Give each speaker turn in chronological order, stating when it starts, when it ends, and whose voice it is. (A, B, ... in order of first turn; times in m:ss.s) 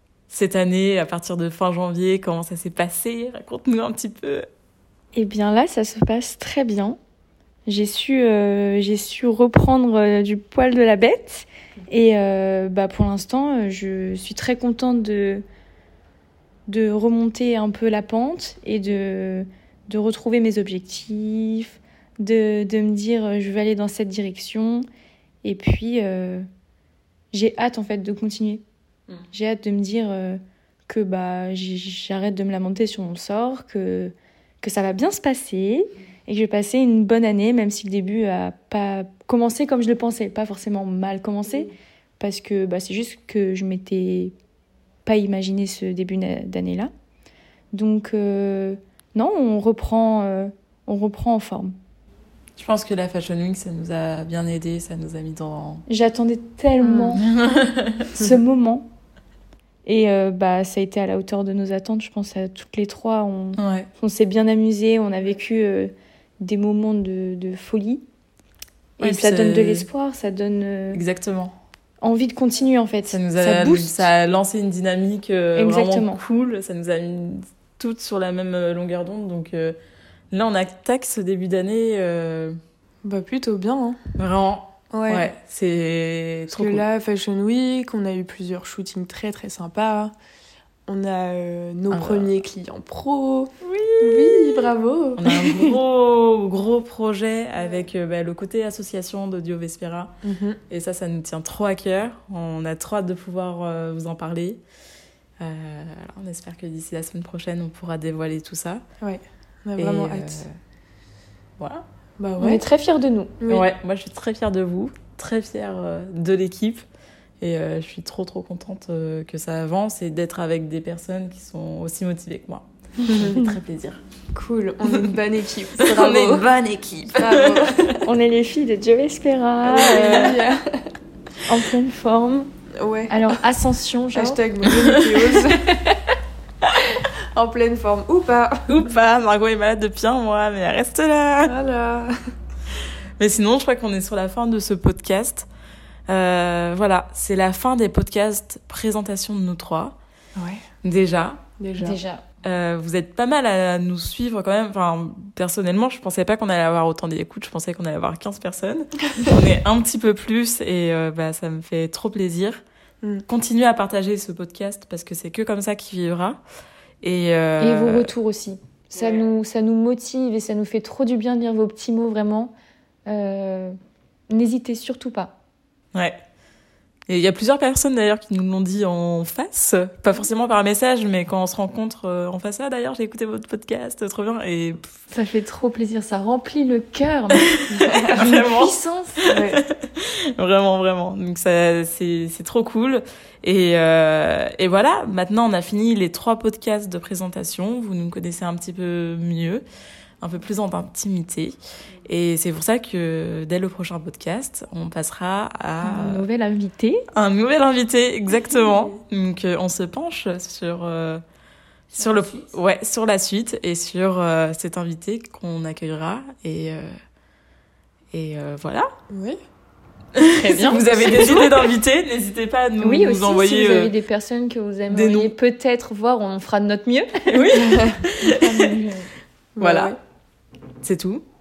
0:00.3-0:04.5 A
0:05.1-0:07.0 B
0:07.6-0:15.4 B
0:16.7-0:24.8 B
0:25.4-0:26.5 B
0:27.3-0:28.6 B
0:29.3-0:44.3 B
0:45.0-0:46.9 B
0:47.7-0:51.7 B
0:52.6-0:55.8 A
0:55.9-0:57.2 B
0:56.9-0:58.2 A
0:58.2-0:58.9 B
0:59.8-1:08.0 B
1:03.6-1:03.9 A
1:09.0-1:11.0 B
1:09.0-1:09.8 A
1:10.9-1:11.6 A
1:12.0-1:14.1 B
1:13.1-1:19.8 A
1:15.5-1:16.2 B
1:20.3-1:22.6 A
1:23.0-1:24.0 C
1:24.2-1:26.8 A
1:24.9-1:25.2 C
1:26.5-1:30.1 C
1:30.9-1:35.4 C
1:31.9-1:32.3 A
1:33.6-1:40.1 A
1:40.2-1:40.6 C
1:40.7-1:44.6 A
1:45.4-1:48.8 A
1:49.0-1:50.4 C
1:49.8-1:50.5 A
1:51.6-1:51.8 A
1:52.2-1:52.6 C
1:52.4-1:53.4 B
1:53.4-1:53.7 C
1:53.5-1:56.8 A
1:57.4-2:04.0 A
2:03.1-2:03.4 C
2:04.3-2:06.5 C
2:04.9-2:05.2 A
2:05.7-2:08.0 A
2:07.1-2:07.9 C
2:08.0-2:10.5 B
2:09.6-2:10.9 C
2:11.4-2:12.5 B
2:12.7-2:13.4 C
2:13.1-2:14.4 B
2:14.1-2:15.7 C
2:14.6-2:15.0 A
2:15.3-2:16.2 B
2:17.3-2:18.8 C
2:18.7-2:21.6 A
2:21.4-2:22.1 C
2:23.2-2:25.5 A
2:26.1-2:30.0 A
2:30.4-2:30.6 C
2:30.8-2:31.4 A
2:31.6-2:32.0 C
2:31.8-2:32.2 B
2:32.4-2:42.6 A
2:43.3-2:46.4 A
2:47.0-2:48.1 A
2:47.6-2:52.5 B
2:53.0-2:53.8 B
2:54.3-2:55.4 B
2:57.1-3:04.9 A
3:05.1-3:09.4 B
3:07.5-3:19.6 A
3:07.8-3:08.2 C
3:09.3-3:09.6 C
3:20.2-3:26.2 A
3:25.8-3:27.0 B
3:27.1-3:31.2 A
3:31.9-3:37.0 A
3:32.1-3:32.4 B
3:38.1-3:38.9 A
3:39.1-3:39.4 C
3:40.1-3:43.9 A
3:40.3-3:41.7 B
3:42.8-3:47.6 B
3:44.9-3:45.3 A
3:47.3-3:48.7 A
3:47.6-3:48.0 C
3:48.2-3:49.1 B
3:49.6-3:50.0 C
3:49.6-3:50.0 A
3:50.8-3:51.2 A